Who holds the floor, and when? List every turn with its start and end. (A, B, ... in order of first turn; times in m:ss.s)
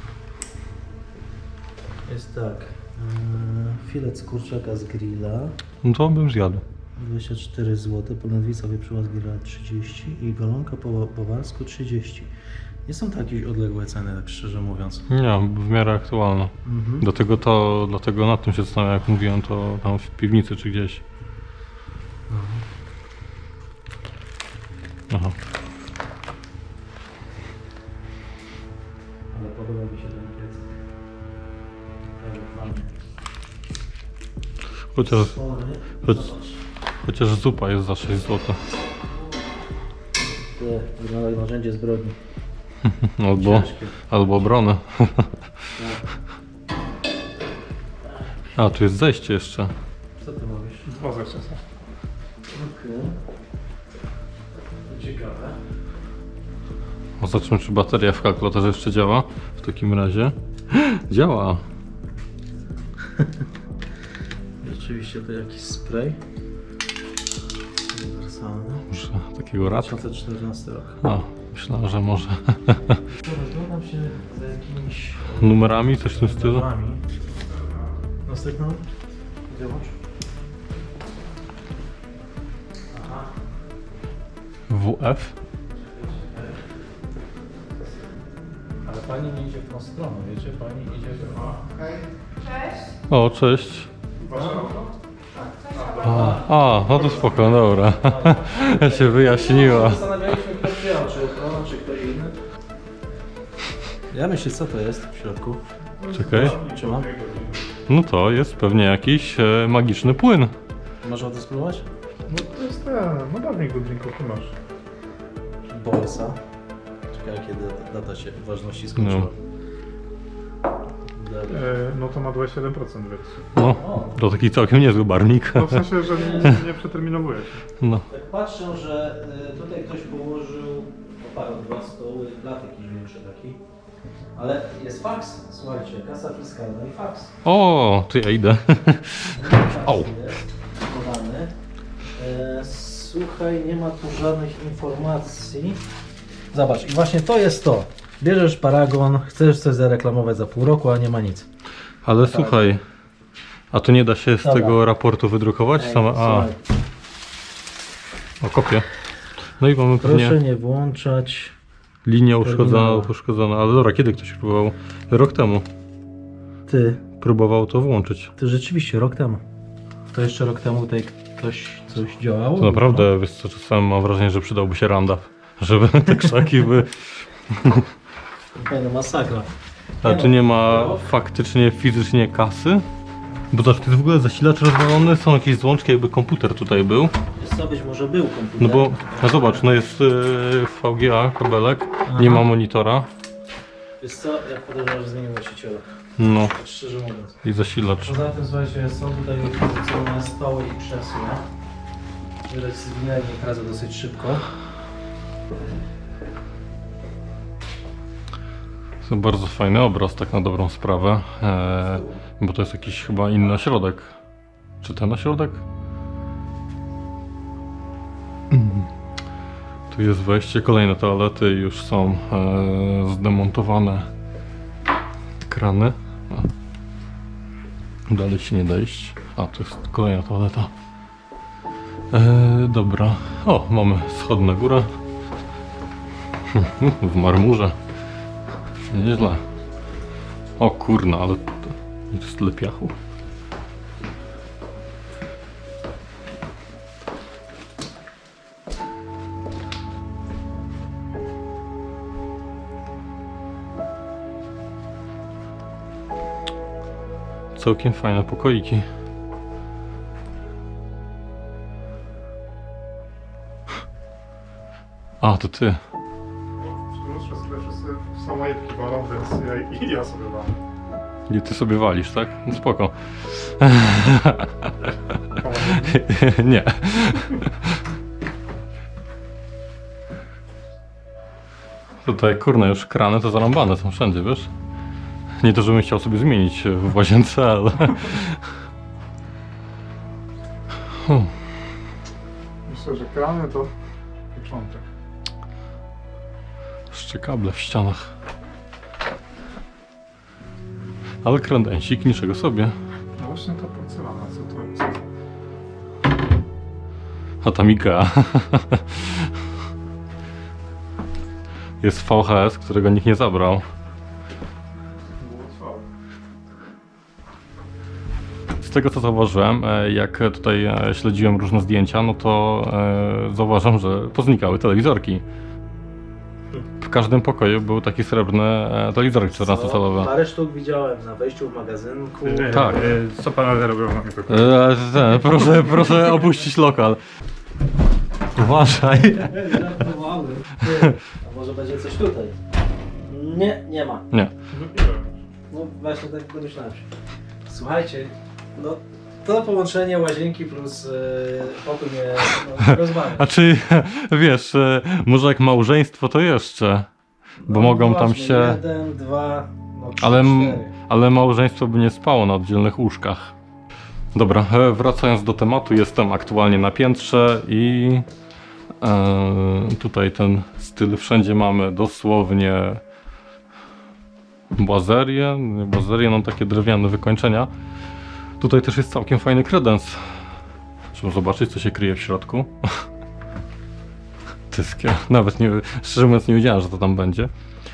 0:02.1-0:05.6 A
0:05.8-0:06.6 B
0:07.0-0:12.3 A
0:12.9-0:15.1 A
0:15.1-0:21.0 B
0:16.6-0:17.1 A
0:22.3-0:22.6 A
0:25.1-0:25.4 B
0:29.3-0:30.7 A
0:32.2-0:32.9 A
0:34.9-0:35.4 B
0:35.0-0:36.6 A
0:37.0-0:38.6 B
0:40.6-0:42.2 A
0:42.8-0:45.4 B
0:43.4-0:44.0 A
0:45.8-0:46.0 A
0:48.6-0:49.7 B
0:50.2-0:50.9 A
0:50.9-0:51.6 C
0:52.5-0:53.2 A
0:54.9-0:55.6 A
0:57.2-1:01.6 B
1:04.6-1:06.2 A
1:07.9-1:08.8 A
1:08.9-1:10.0 B
1:09.6-1:11.0 A
1:11.0-1:13.0 B
1:13.1-1:17.0 A
1:15.4-1:16.7 B
1:18.2-1:18.8 A
1:19.5-1:20.0 A
1:22.9-1:23.3 A
1:24.7-1:25.4 B
1:25.8-1:26.6 A
1:28.8-1:31.9 A
1:33.1-1:33.9 B
1:34.3-1:34.9 C
1:34.3-1:34.8 A
1:35.7-1:42.4 A
1:35.7-1:36.4 C
1:36.0-1:40.1 B
1:44.1-1:47.1 A
1:46.1-1:47.6 C
1:46.1-1:46.6 B
1:47.9-1:50.5 B
1:51.0-1:51.9 A
1:52.3-1:54.6 C
1:55.7-1:56.4 A
1:57.1-1:59.4 A
1:59.0-1:59.3 B
2:01.2-2:01.7 A
2:01.5-2:03.5 C
2:03.5-2:05.9 B
2:03.6-2:04.2 A
2:05.5-2:07.6 C
2:06.0-2:06.6 A
2:07.8-2:08.0 B
2:08.1-2:13.6 A
2:14.4-2:17.4 A
2:17.4-2:20.1 B
2:19.3-2:21.5 A
2:22.2-2:25.8 A
2:26.5-2:31.5 A
2:32.0-2:32.8 B
2:32.2-2:32.6 A
2:33.7-2:36.5 B
2:34.4-2:34.8 A
2:35.8-2:36.6 A
2:38.4-2:38.9 B
2:39.6-2:40.4 B
2:40.0-2:41.6 A
2:42.0-2:45.7 B
2:42.4-2:43.1 A
2:46.7-2:47.0 A
2:47.2-2:48.3 B
2:48.4-2:49.4 A
2:50.1-2:53.1 A
2:52.6-2:57.9 B
2:58.6-3:01.1 A
3:00.0-3:02.9 B
3:03.5-3:07.2 B
3:07.4-3:09.6 A
3:08.6-3:13.1 B
3:12.1-3:12.5 A
3:14.0-3:15.9 A
3:16.2-3:16.5 B
3:16.4-3:17.4 A
3:17.4-3:18.2 B
3:18.0-3:21.4 A
3:22.5-3:24.4 A
3:29.0-3:34.2 B
3:34.8-3:35.6 B
3:38.5-3:38.9 B
3:39.9-3:44.1 B
3:45.5-3:46.5 B
3:48.1-3:50.7 B
3:52.1-3:55.0 B
3:56.5-3:57.8 B
3:58.9-3:59.4 B
4:00.6-4:03.0 B
4:17.6-4:18.8 B
4:25.2-4:25.8 B
4:26.6-4:30.6 C
4:31.3-4:34.7 B
4:35.3-4:36.0 C
4:35.5-4:37.8 B
4:42.0-4:44.5 B
4:45.4-4:48.5 B
4:50.9-4:51.4 B
4:52.7-4:53.7 C
4:54.3-4:54.9 C
4:56.9-4:58.2 B
5:01.2-5:02.8 B
5:03.2-5:05.0 C
5:07.4-5:09.4 B
5:11.8-5:13.7 B
5:15.2-5:15.8 C
5:18.6-5:25.2 B
5:26.8-5:30.1 B
5:29.3-5:32.9 A
5:32.3-5:34.6 C
5:32.4-5:33.0 B
5:34.3-5:37.0 B
5:38.4-5:39.8 B
5:39.2-5:42.4 A
5:43.1-5:44.1 A
5:44.5-5:45.1 C
5:45.5-5:46.9 A
5:47.5-5:53.3 A
5:52.6-5:56.9 B
5:57.4-6:00.7 A
5:57.5-5:58.6 B
6:00.0-6:03.4 B
6:04.2-6:08.1 B
6:08.8-6:12.8 B
6:14.5-6:17.5 B
6:18.4-6:20.4 B
6:20.9-6:22.9 B
6:24.5-6:27.3 B